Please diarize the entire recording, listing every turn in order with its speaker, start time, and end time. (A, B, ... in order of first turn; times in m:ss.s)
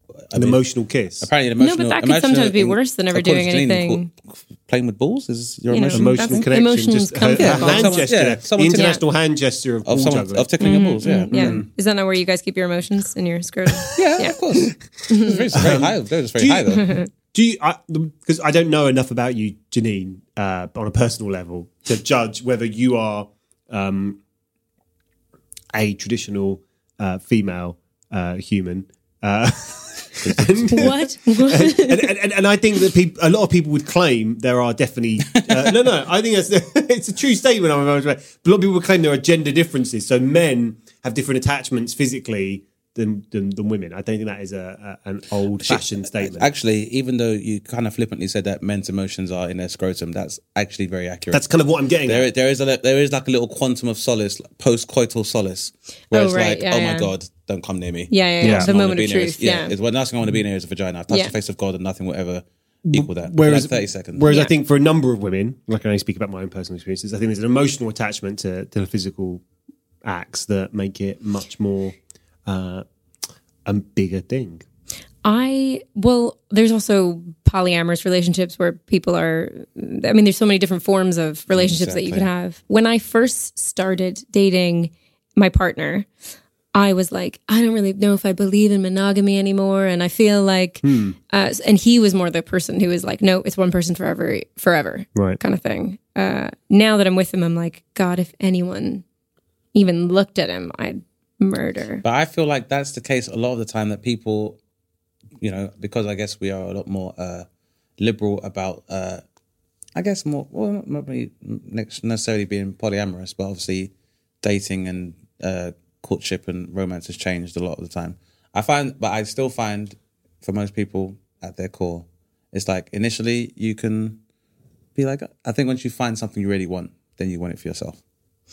0:00.3-0:00.6 A
0:00.3-0:01.3 B
0:01.2-0:06.5 A
0:01.6-0:04.1 C
0:05.7-0:08.0 C
0:05.9-0:10.5 B
0:07.4-0:09.0 A
0:08.7-0:09.0 C
0:09.9-0:11.6 A
0:10.6-0:14.4 C
0:11.3-0:11.7 B
0:13.9-0:17.0 A
0:15.1-0:15.4 C
0:15.5-0:24.2 B
0:16.8-0:17.1 C
0:25.7-0:46.5 B
0:30.2-0:30.9 A
0:30.7-0:32.1 C
0:45.6-0:51.5 A
0:51.3-0:52.3 B
0:52.0-1:04.3 A
0:56.1-0:57.1 C
0:58.1-0:59.7 C
0:58.4-0:58.7 B
1:02.8-1:09.4 B
1:10.0-1:12.0 B
1:12.5-1:12.8 B
1:13.6-1:14.6 B
1:15.2-1:26.1 C
1:21.5-1:22.3 A
1:26.7-1:39.0 C
1:30.8-1:31.2 B
1:35.2-1:35.4 B
1:39.7-1:42.0 C
1:42.0-1:44.6 A
1:45.4-1:47.5 A
1:48.0-1:49.2 A
1:50.0-1:53.9 A
1:54.4-2:04.2 A
2:05.0-2:08.0 A